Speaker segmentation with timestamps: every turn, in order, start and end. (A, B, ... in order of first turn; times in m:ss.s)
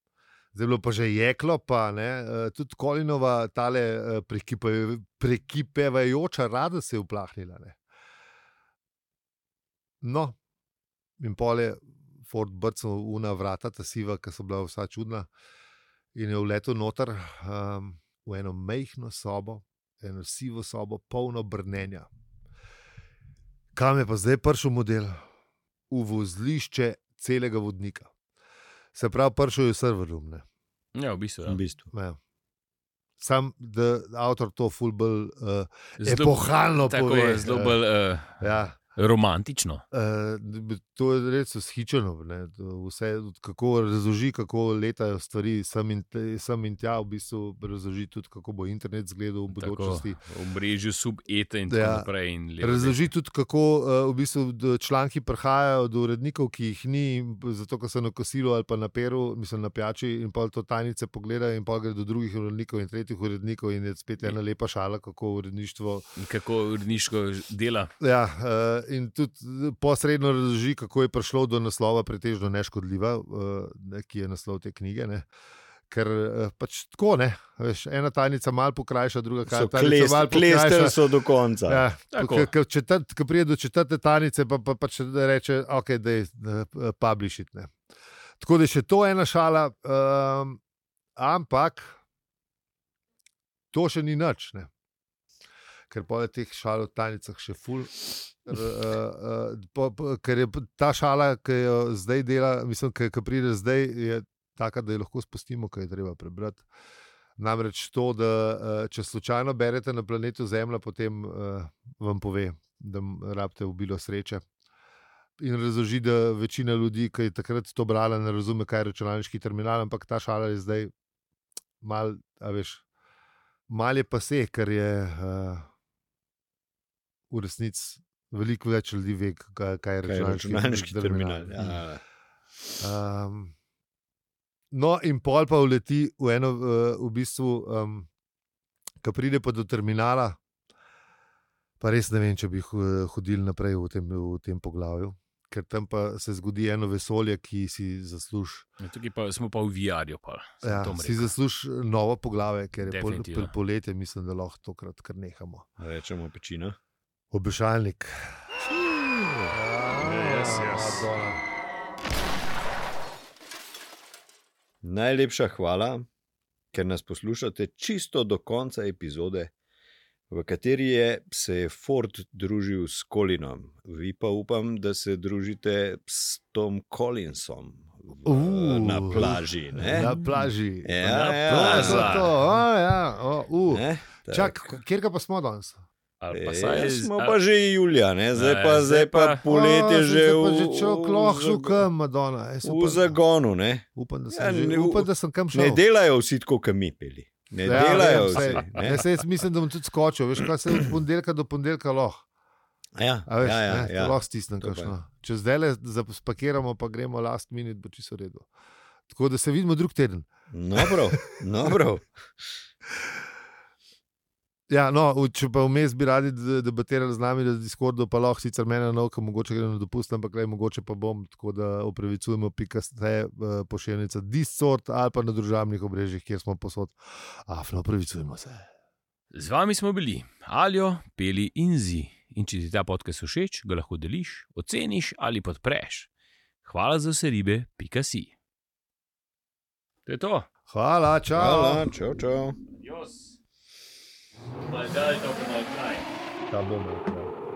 0:00.5-0:07.8 A
0:10.0-0:10.4 A
0:11.2-0:15.3 A
0:16.1-0:22.1 A
0:23.7-0:25.2 A
0:25.9-0:28.1 A
0:28.9-0:30.4 A
0:31.0-0:31.6 B
0:31.4-0:31.8 C
0:31.9-0:32.2 A
0:33.2-0:37.8 A
0:36.0-0:38.4 B
0:38.4-0:38.8 A
0:38.9-0:39.8 B
0:39.9-0:50.2 A
0:49.5-0:53.0 B
0:51.7-0:52.1 A
0:52.6-1:06.1 A
1:06.2-1:07.9 B
1:08.0-1:15.3 A
1:15.9-1:21.0 A
1:19.5-1:21.8 C
1:21.7-1:27.7 A
1:22.1-1:22.5 B
1:28.4-1:30.6 A
1:31.2-1:32.0 A
1:33.7-1:34.7 A
1:35.9-1:46.6 A
1:47.4-1:54.4 A
1:55.4-2:00.9 A
2:01.8-2:02.8 A
2:03.7-2:05.7 A
2:07.3-2:11.8 A
2:10.0-2:12.0 C
2:12.8-2:13.5 A
2:14.7-2:18.1 A
2:19.0-2:20.4 A
2:21.8-2:28.7 A
2:28.8-2:31.3 B
2:30.6-2:35.6 A
2:32.8-2:33.5 B
2:35.8-2:36.8 C
2:37.3-2:38.4 A
2:38.6-2:39.5 C
2:39.5-2:41.4 A
2:39.9-2:41.0 B
2:44.8-2:46.0 C
2:46.7-2:49.5 C
2:50.3-3:02.4 C
2:58.2-3:05.8 A
3:01.0-3:02.3 B
3:03.7-3:04.8 C
3:06.2-3:07.4 B
3:06.3-3:11.8 C
3:08.3-3:09.4 B
3:09.4-3:13.2 A
3:12.6-3:19.1 C
3:14.0-3:15.8 A
3:17.6-3:22.2 A
3:18.0-3:18.4 B
3:23.0-3:24.9 C
3:23.3-3:28.5 A
3:29.1-3:31.8 A
3:30.5-3:32.5 C
3:34.7-3:48.7 A
3:49.3-3:56.1 B
3:56.6-3:58.3 B
4:00.0-4:00.5 B
4:00.7-4:01.9 A
4:01.4-4:02.6 C
4:02.7-4:03.4 B
4:04.6-4:06.1 B
4:06.5-4:07.3 A